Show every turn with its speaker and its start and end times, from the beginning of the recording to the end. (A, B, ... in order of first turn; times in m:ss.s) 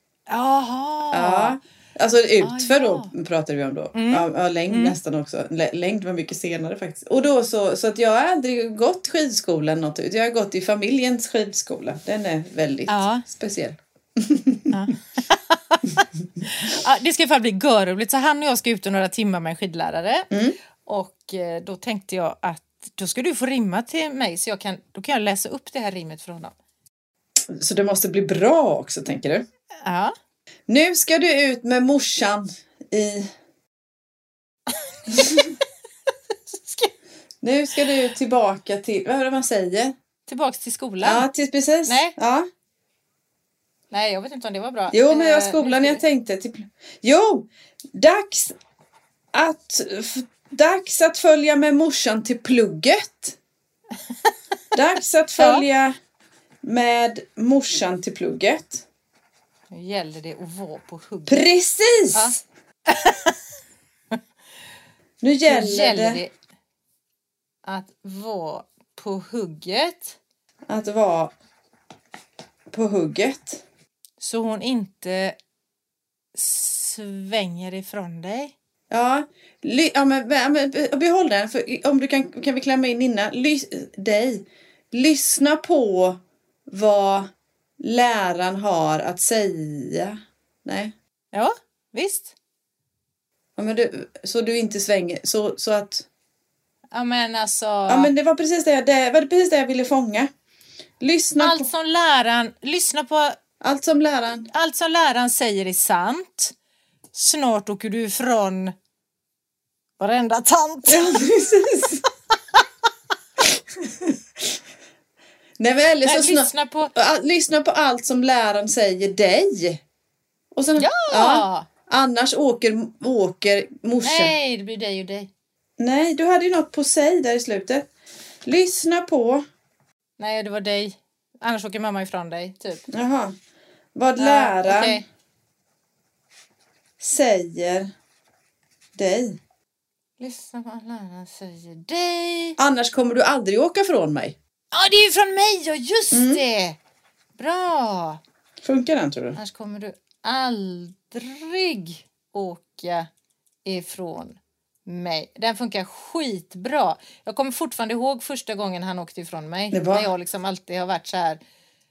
0:00.3-0:01.6 A
0:01.1-0:14.7 B
0:02.4-0:03.1 A
0:03.9-0:05.0 A
0:12.9-0:13.2 A
0:14.7-0:20.3 A
0:20.3-0:20.6 B
0:20.8-0:26.5 A
0:27.5-0:29.4 B
0:29.8-0:30.1 A
0:30.7-0:33.3 B
0:34.7-0:35.2 A
0:36.5-0:36.9 A
0:37.4-0:39.9 B
0:40.3-0:41.2 A
0:41.0-0:42.4 B
0:41.9-0:42.2 A
0:43.9-0:46.0 A
0:44.9-0:48.6 B
0:49.3-0:53.4 B
0:54.7-0:55.9 B
0:55.4-0:55.6 A
0:56.6-0:58.8 B
0:59.7-1:01.4 A
1:01.3-1:02.4 B
1:02.9-1:03.4 A
1:05.2-1:06.2 B
1:05.4-1:06.3 A
1:07.6-1:10.2 A
1:10.7-1:11.3 B
1:12.7-1:13.6 B
1:14.2-1:15.4 A
1:16.3-1:18.5 A
1:18.9-1:27.3 B
1:27.8-1:30.9 B
1:31.3-1:32.3 A
1:33.6-1:36.1 B
1:36.9-1:38.1 A
1:37.9-1:40.3 B
1:41.0-1:41.7 B
1:41.4-1:43.4 A
1:43.6-1:44.5 B
1:44.5-1:46.5 A
1:47.1-1:48.7 A
1:50.0-1:51.0 A
1:50.8-1:52.0 B
1:53.4-1:54.4 B
1:55.6-1:59.8 B
1:56.0-1:56.9 A
2:00.5-2:04.3 B
2:00.8-2:01.7 A
2:04.0-2:05.3 A
2:05.8-2:07.9 B
2:08.4-2:09.4 B
2:10.2-2:12.8 A
2:12.9-2:13.3 B
2:13.9-2:15.0 B
2:14.2-2:15.0 A
2:17.0-2:17.9 B
2:19.0-2:19.4 B
2:20.2-2:22.6 A
2:22.6-2:24.4 B
2:24.7-2:26.8 A
2:26.1-2:26.4 B
2:27.4-2:28.2 A
2:28.6-2:29.4 B
2:29.4-2:33.1 A
2:33.6-2:41.4 A
2:39.7-2:40.1 B